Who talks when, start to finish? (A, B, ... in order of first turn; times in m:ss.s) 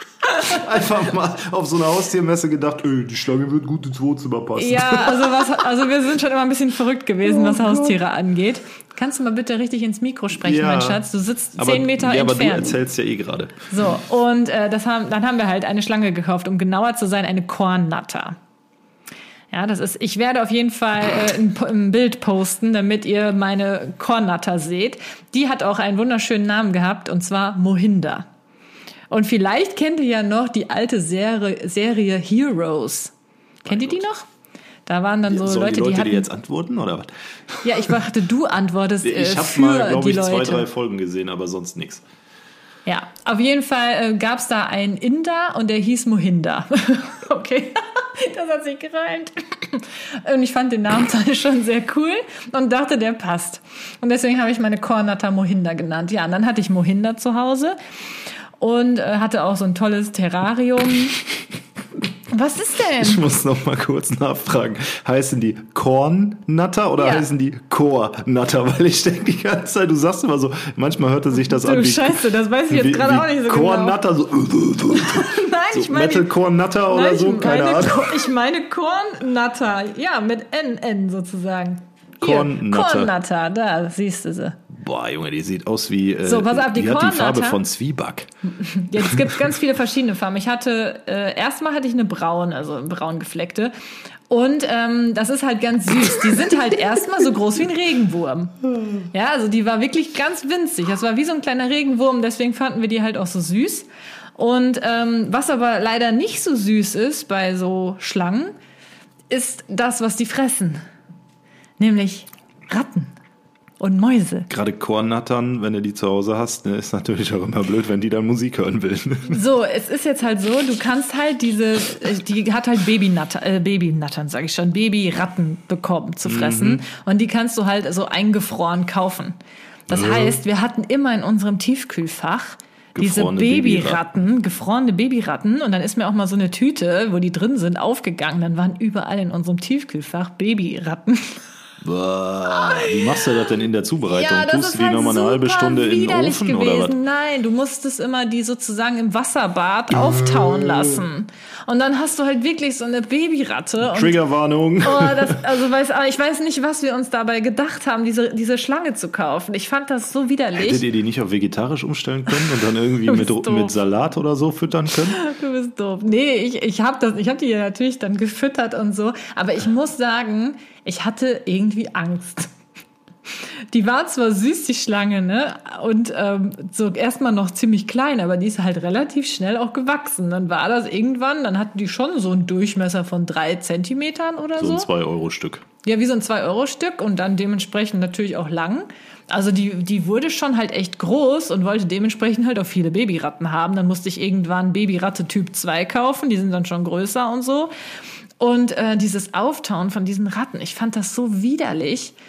0:00.4-0:05.5 A
0:04.6-0:12.8 B
0:07.3-0:08.0 A
0:10.4-0:11.0 A
0:11.6-0:13.7 A
0:13.7-0:18.4 B
0:19.5-0:28.3 B
0:29.1-0:33.1 B
0:33.6-0:34.3 B
0:33.7-0:34.0 A
0:34.9-0:36.3 B
0:35.3-0:37.9 A
0:37.6-0:40.7 B
0:39.0-0:42.0 A
0:42.9-0:57.8 B
0:58.6-1:01.2 B
1:02.3-1:03.2 B
1:03.0-1:18.2 A
1:07.0-1:07.3 B
1:11.4-1:14.0 B
1:14.9-1:16.3 B
1:16.9-1:24.6 B
1:22.2-1:23.1 A
1:24.7-1:28.3 A
1:26.2-1:27.6 B
1:28.6-1:33.7 B
1:34.3-1:38.5 B
1:39.1-1:48.6 B
1:49.3-1:50.8 B
1:51.8-1:53.1 B
1:53.8-1:54.5 B
1:54.5-1:59.4 A
1:59.3-2:09.4 B
2:06.2-2:06.8 A
2:09.9-2:21.4 B
2:09.9-2:10.4 A
2:13.0-2:14.0 A
2:21.8-2:27.0 A
2:22.5-2:23.2 B
2:24.1-2:34.2 B
2:29.9-2:31.1 A
2:33.8-2:35.5 A
2:34.8-2:40.9 B
2:40.6-2:45.2 A
2:43.1-2:43.8 B
2:45.1-2:52.5 B
2:53.7-3:04.9 B
3:04.6-3:05.7 A
3:05.8-3:17.7 B
3:18.4-3:22.2 B